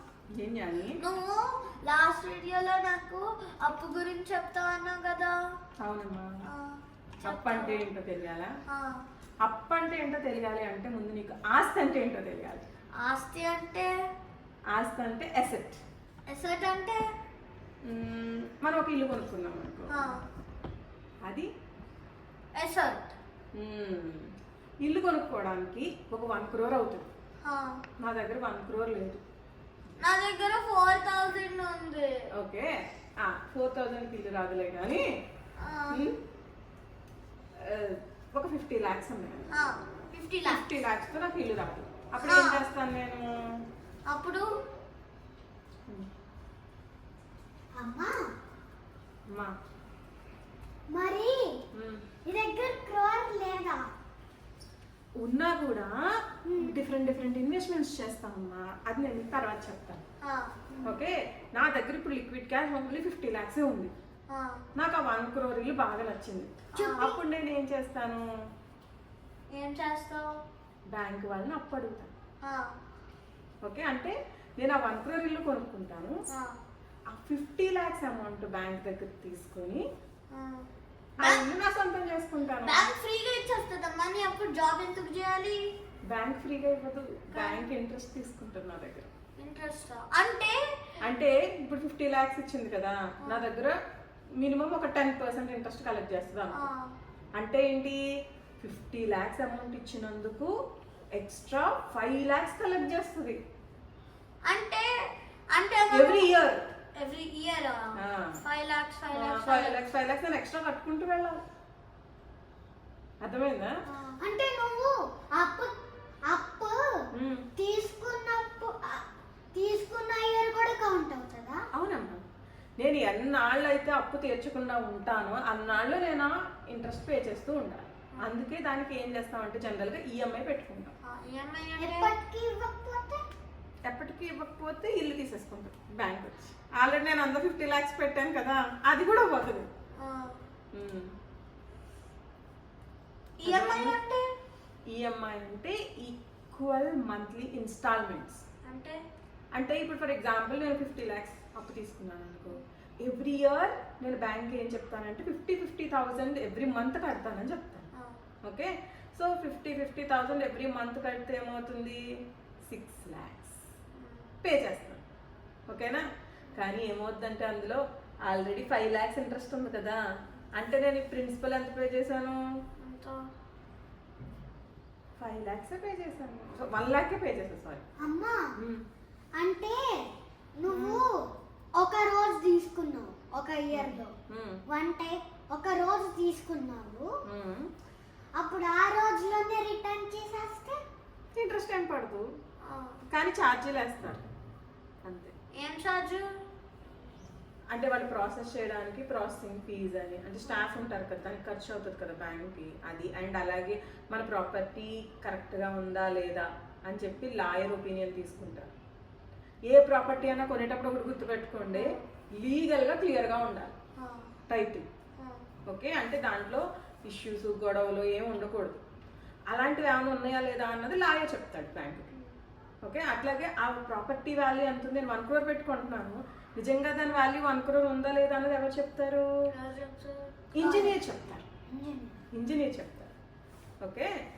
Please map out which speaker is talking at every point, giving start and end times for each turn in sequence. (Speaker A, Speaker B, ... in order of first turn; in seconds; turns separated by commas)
Speaker A: 0.3-1.0, Speaker B: 1.0-5.3, Speaker A: 5.8-6.3, Speaker B: 6.5-7.9, Speaker A: 7.2-8.5, Speaker B: 8.7-9.0, Speaker A: 9.4-12.6, Speaker B: 13.0-13.9, Speaker A: 14.7-15.8, Speaker B: 16.3-17.0, Speaker A: 17.9-20.1, Speaker B: 19.9-20.2, Speaker B: 22.6-23.1, Speaker A: 23.5-24.3, Speaker A: 24.8-27.1, Speaker B: 27.4-27.8, Speaker A: 28.0-29.2, Speaker B: 30.0-32.1, Speaker A: 32.4-35.0, Speaker B: 35.6-36.0, Speaker A: 35.9-36.2, Speaker A: 37.6-39.5, Speaker B: 39.5-40.6, Speaker A: 40.5-43.3, Speaker B: 42.2-42.6, Speaker B: 44.1-44.5, Speaker C: 47.8-48.2, Speaker C: 50.9-51.5, Speaker A: 51.7-52.0, Speaker C: 52.2-53.8, Speaker A: 55.2-55.9, Speaker C: 56.5-56.7, Speaker A: 56.5-60.0, Speaker B: 60.2-60.5, Speaker A: 60.8-63.9, Speaker B: 64.3-64.6, Speaker A: 64.7-68.2, Speaker B: 66.7-67.1, Speaker C: 66.8-67.2, Speaker B: 69.5-70.3, Speaker A: 70.9-72.1, Speaker B: 72.4-72.7, Speaker A: 73.6-76.2, Speaker A: 77.1-79.8, Speaker B: 80.3-80.6, Speaker A: 81.2-82.9, Speaker B: 82.6-85.6, Speaker A: 86.1-89.1, Speaker B: 87.3-87.7, Speaker B: 89.4-90.6, Speaker A: 91.0-93.7, Speaker A: 94.4-96.6, Speaker B: 96.5-96.9, Speaker A: 97.4-98.0, Speaker A: 98.6-100.5, Speaker A: 101.2-103.4, Speaker B: 104.5-104.9, Speaker B: 105.5-106.3, Speaker A: 105.9-106.7, Speaker B: 107.0-109.8, Speaker A: 108.0-108.4, Speaker A: 109.1-111.4, Speaker A: 113.2-113.7, Speaker B: 113.9-114.2, Speaker C: 114.2-115.7, Speaker C: 116.3-117.0, Speaker A: 117.1-117.5, Speaker C: 117.6-119.0, Speaker C: 119.5-121.6, Speaker A: 121.7-122.2, Speaker A: 122.8-130.9, Speaker B: 131.1-132.1, Speaker C: 131.8-133.2, Speaker A: 133.9-139.7, Speaker B: 140.0-140.3, Speaker A: 140.7-141.1, Speaker B: 143.4-144.2, Speaker A: 143.4-144.0, Speaker A: 144.9-148.4, Speaker B: 148.6-149.0, Speaker A: 149.6-157.9, Speaker A: 158.4-162.0, Speaker A: 162.7-163.6, Speaker B: 164.0-164.3, Speaker A: 164.4-165.0, Speaker A: 165.7-166.0, Speaker A: 166.6-170.0, Speaker A: 170.6-172.4, Speaker B: 172.8-173.2, Speaker A: 175.2-177.8, Speaker C: 178.0-178.4, Speaker A: 178.6-178.8, Speaker C: 179.4-179.8, Speaker C: 180.6-181.1, Speaker A: 180.7-181.0, Speaker C: 181.8-184.1, Speaker A: 183.7-184.6, Speaker C: 184.7-187.1, Speaker A: 187.3-187.7, Speaker C: 188.4-190.8, Speaker A: 191.3-192.2, Speaker B: 192.6-193.0, Speaker A: 193.1-194.2, Speaker A: 195.0-195.3, Speaker B: 195.6-196.3, Speaker A: 197.7-208.7, Speaker A: 209.7-213.7, Speaker B: 211.7-212.0, Speaker B: 214.0-214.3, Speaker A: 214.5-214.8, Speaker A: 215.7-218.8, Speaker A: 219.5-222.1, Speaker A: 222.8-229.2, Speaker B: 229.5-230.9, Speaker A: 230.6-231.5, Speaker C: 231.8-232.1, Speaker A: 232.3-233.1, Speaker A: 233.8-234.1